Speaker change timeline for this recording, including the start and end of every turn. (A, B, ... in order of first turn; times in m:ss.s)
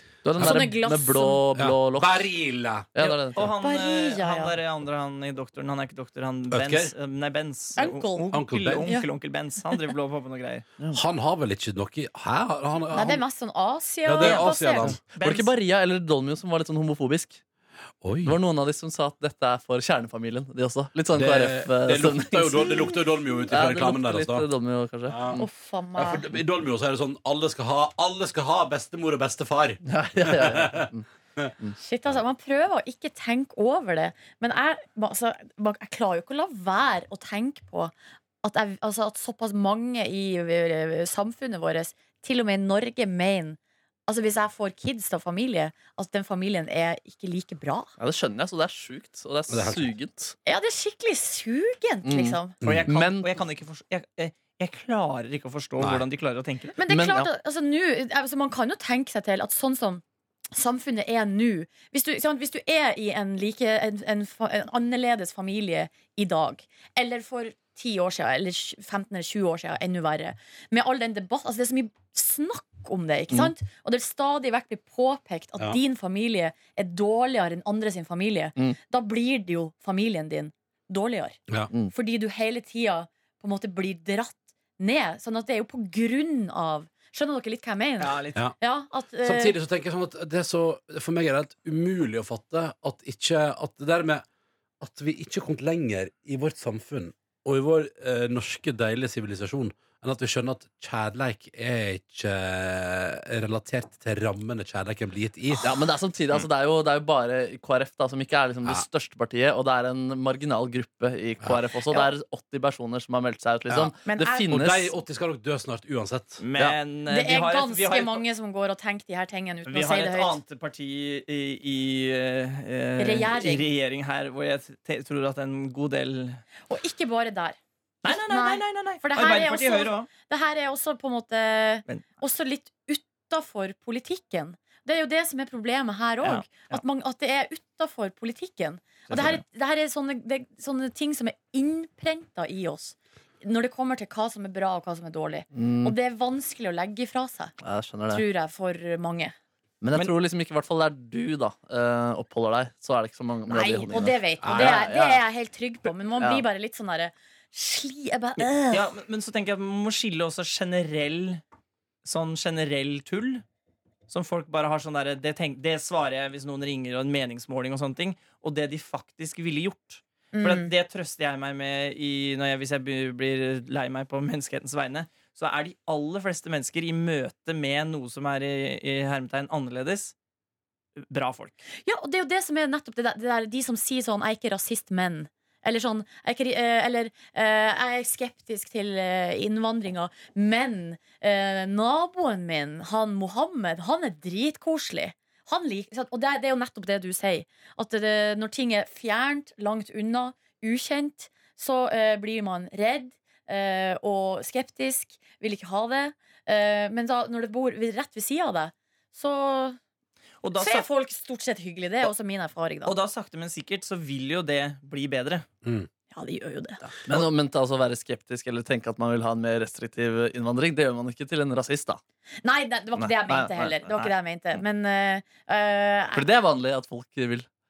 0:00.2-0:02.3 A
0:00.4-0:01.4 B
0:00.4-0:00.7 C
0:01.5-0:02.9 C
0:02.9-0:03.5 A
0:03.0-0:10.6 D
0:03.5-0:04.6 B
0:06.5-0:06.9 C
0:07.8-0:09.1 B
0:08.3-0:08.9 C
0:10.9-0:13.2 C
0:12.9-0:15.0 B
0:14.0-0:15.0 C
0:14.8-0:17.4 A
0:15.1-0:15.5 D
0:18.0-0:18.4 C
0:18.2-0:25.4 A
0:21.1-0:24.5 C
0:25.1-0:25.4 C
0:25.4-0:26.3 B
0:26.0-0:31.5 C
0:29.8-0:31.1 A
0:31.8-0:47.9 B
0:48.0-0:50.4 A
0:49.5-0:49.9 C
0:50.4-0:52.6 B
0:52.0-0:53.3 A
0:52.6-0:52.9 C
0:52.6-0:56.8 D
0:56.8-1:21.4 B
0:56.9-0:57.3 A
1:21.9-1:29.6 B
1:28.0-1:28.4 D
1:29.2-1:34.2 C
1:34.8-1:45.8 C
1:45.6-1:54.9 A
1:53.7-1:54.0 C
1:54.1-1:54.5 B
1:54.5-1:56.4 C
1:56.4-1:58.2 D
1:57.1-2:00.4 B
1:59.7-2:06.4 D
2:03.0-2:03.7 B
2:06.7-2:27.6 B
2:08.0-2:10.1 D
2:16.2-2:16.8 D
2:19.1-2:19.4 D
2:25.5-2:26.0 A
2:27.6-2:28.2 A
2:28.1-2:29.4 B
2:29.8-2:35.2 A
2:33.5-2:38.9 B
2:34.4-2:34.8 C
2:36.2-2:36.4 A
2:38.7-2:41.4 D
2:42.0-2:43.4 D
2:44.1-3:00.1 D
2:50.3-2:50.7 B
3:01.0-3:01.6 D
3:01.8-3:29.8 B
3:30.4-3:30.9 D
3:30.6-3:33.0 B
3:32.9-3:35.5 D
3:36.1-3:36.9 B
3:37.0-3:42.0 A
3:42.4-3:46.3 B
3:43.0-3:43.8 A
3:46.1-3:47.5 A